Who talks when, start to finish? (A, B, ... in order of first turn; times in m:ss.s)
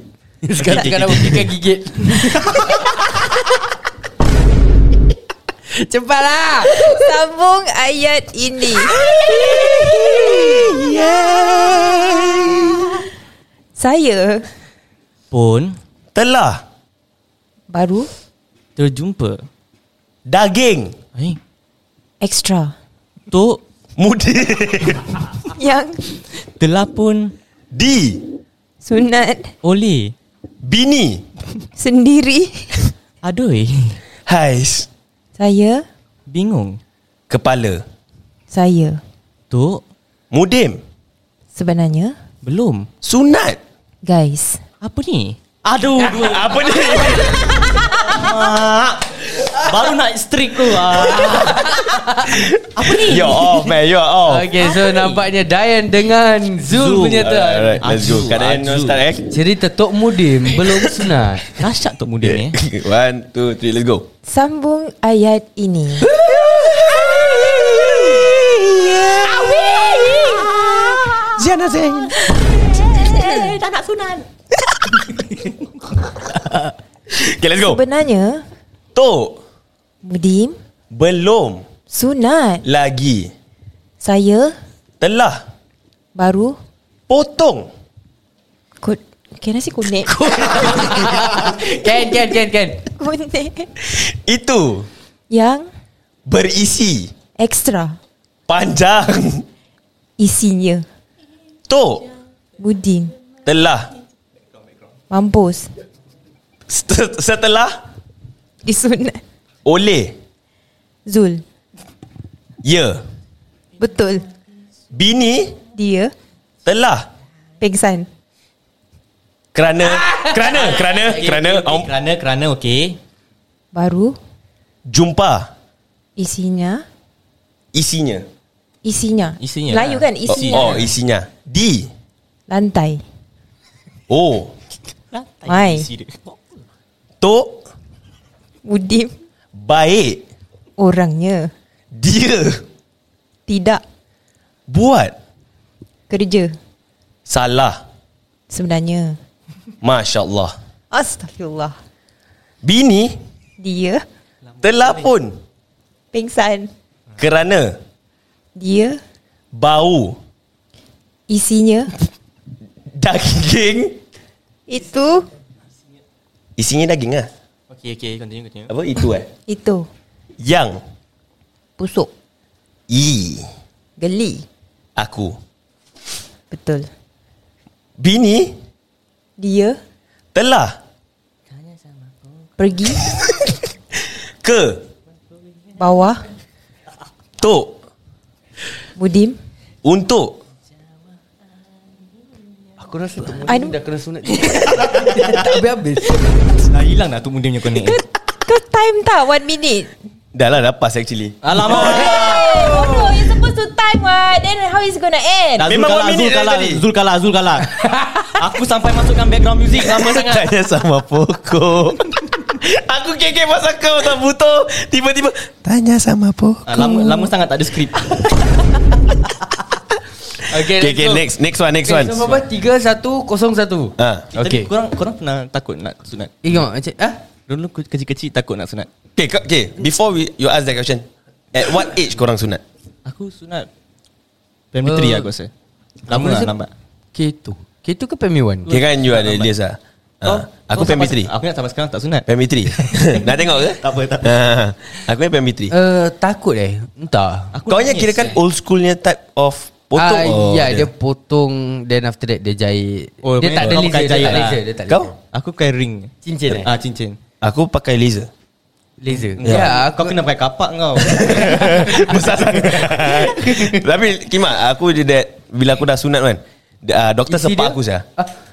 0:00.4-0:03.5 A
0:00.6-0:01.4 B
0:05.7-0:06.9 A
0:06.8-0:09.0 C
0:09.0-0:10.8 A
0:09.3-0:12.8 B
0:13.8-0:14.5 C
0:15.3-0:15.8 D
0:16.1-0:16.6 B
0:17.7-0:18.1 C
0:18.8-0:19.4 D
0:20.3-0:20.9 B
0:22.2-0:22.7 C
0:23.3-0:23.6 D
0:24.0-0:25.3 B
0:25.5-0:26.0 C
0:26.6-0:27.3 D
0:27.7-0:28.2 B
0:28.8-0:29.5 C
0:29.6-0:30.1 D
0:30.6-0:31.2 B
0:31.8-0:32.9 C
0:33.2-0:34.0 D
0:34.3-0:34.9 B
0:35.4-0:35.8 C
0:36.3-0:36.8 D
0:37.3-0:37.8 B
0:38.5-0:39.0 C
0:39.5-0:39.8 D
0:40.3-0:40.8 B
0:41.5-0:42.2 C
0:42.4-0:42.9 D
0:43.0-0:43.6 B
0:44.0-0:44.6 C
0:44.8-0:52.1 D
0:46.1-0:47.5 B
0:51.7-0:52.3 A
0:52.3-0:54.5 B
0:52.7-0:53.6 D
0:54.2-0:57.8 A
0:56.7-0:57.3 D
0:57.2-0:59.3 B
0:57.8-0:59.0 D
0:59.3-1:01.6 A
1:01.6-1:02.6 D
1:02.2-1:04.1 B
1:04.2-1:06.1 C
1:06.0-1:12.6 B
1:09.4-1:11.3 D
1:12.2-1:14.2 D
1:13.0-1:13.5 C
1:17.1-1:17.8 B
1:17.6-1:18.4 C
1:18.9-1:19.4 B
1:20.0-1:20.6 C
1:20.9-1:21.6 B
1:21.9-1:22.6 C
1:22.6-1:23.3 B
1:24.0-1:24.5 C
1:25.0-1:25.4 B
1:26.2-1:26.6 C
1:27.1-1:27.7 B
1:28.8-1:31.1 C
1:30.0-1:32.8 A
1:32.9-1:33.7 C
1:33.8-1:34.9 B
1:35.3-1:35.7 C
1:36.2-1:37.1 B
1:37.4-1:38.0 C
1:38.5-1:39.4 B
1:40.2-1:40.8 C
1:41.7-1:42.0 B
1:42.6-1:43.1 C
1:43.4-1:43.9 B
1:45.1-1:45.7 C
1:46.7-1:47.7 B
1:48.6-1:49.2 C
1:49.6-1:50.1 B
1:51.0-1:51.4 C
1:52.6-1:53.0 B
1:53.8-1:54.2 C
1:54.9-1:55.6 B
1:55.7-1:56.1 C
1:56.6-1:57.1 B
1:57.6-1:58.1 C
1:59.5-2:01.9 B
1:59.8-2:00.8 A
2:00.5-2:03.0 D
2:03.7-2:04.2 C
2:04.8-2:05.5 B
2:06.2-2:06.8 C
2:07.7-2:08.2 B
2:08.8-2:10.9 C
2:09.4-2:10.9 D
2:10.3-2:11.9 B
2:12.5-2:13.0 C
2:14.1-2:14.5 B
2:15.1-2:16.4 D
2:15.4-2:15.9 C
2:17.2-2:17.6 B
2:18.6-2:19.1 C
2:19.5-2:20.2 B
2:20.8-2:21.5 C
2:21.9-2:22.6 B
2:23.5-2:23.8 C
2:24.7-2:25.1 B
2:26.1-2:26.6 C
2:27.2-2:27.8 B
2:28.5-2:29.2 C
2:29.8-2:30.5 B
2:30.9-2:31.8 C
2:32.6-2:33.2 B
2:33.6-2:34.0 C
2:34.6-2:35.4 B
2:36.1-2:36.7 C
2:37.2-2:37.8 B
2:38.6-2:39.0 C
2:39.5-2:40.2 B
2:41.3-2:41.9 C
2:42.9-2:44.0 B
2:44.7-2:45.3 C
2:46.6-2:47.3 B
2:47.7-2:48.7 D
2:48.7-2:49.3 B
2:49.5-2:49.9 C
2:50.4-2:50.8 B
2:51.8-2:52.1 C
2:52.9-2:53.5 B
2:54.0-2:54.4 C
2:55.0-2:55.4 B
2:56.5-2:56.9 C
2:58.0-2:58.6 B
2:59.4-2:59.8 C
3:00.3-3:00.8 B
3:02.6-3:03.0 C
3:03.2-3:03.5 B
3:04.4-3:04.8 B
3:05.8-3:06.2 C
3:07.4-3:07.8 B
3:09.0-3:09.4 C
3:09.8-3:10.4 B
3:12.8-3:16.6 A
3:13.5-3:13.7 C
3:16.7-3:18.0 D
3:17.8-3:19.9 C
3:20.3-3:22.5 B
3:21.4-3:22.8 D
3:21.6-3:25.7 C
3:25.6-3:30.5 D
3:25.6-3:26.8 B
3:29.8-3:36.9 B
3:36.6-3:38.3 D
3:40.4-3:41.3 A
3:40.6-3:42.3 B
3:41.8-3:44.7 A
3:44.0-3:44.3 B
3:44.3-3:46.3 D
3:46.4-3:47.2 A
3:47.5-3:48.9 D
3:49.2-3:52.6 B
3:53.0-3:53.7 D
3:54.7-3:55.5 D
3:54.8-3:55.3 A
3:56.1-3:56.5 A
3:56.1-3:56.7 D
3:57.1-3:58.7 A
3:58.6-3:59.5 D
3:58.7-4:01.3 B
4:00.2-4:02.2 D
4:02.3-4:05.7 B
4:02.8-4:04.4 D
4:05.7-4:07.5 A
4:07.5-4:08.4 D
4:07.7-4:10.9 B
4:10.0-4:15.1 A
4:13.2-4:14.6 D
4:13.6-4:15.1 B
4:15.3-4:17.2 D
4:16.2-4:16.7 A
4:17.4-4:18.3 B
4:19.0-4:20.2 A
4:19.1-4:23.8 D
4:19.4-4:19.7 B
4:21.0-4:28.0 B
4:27.3-4:28.3 A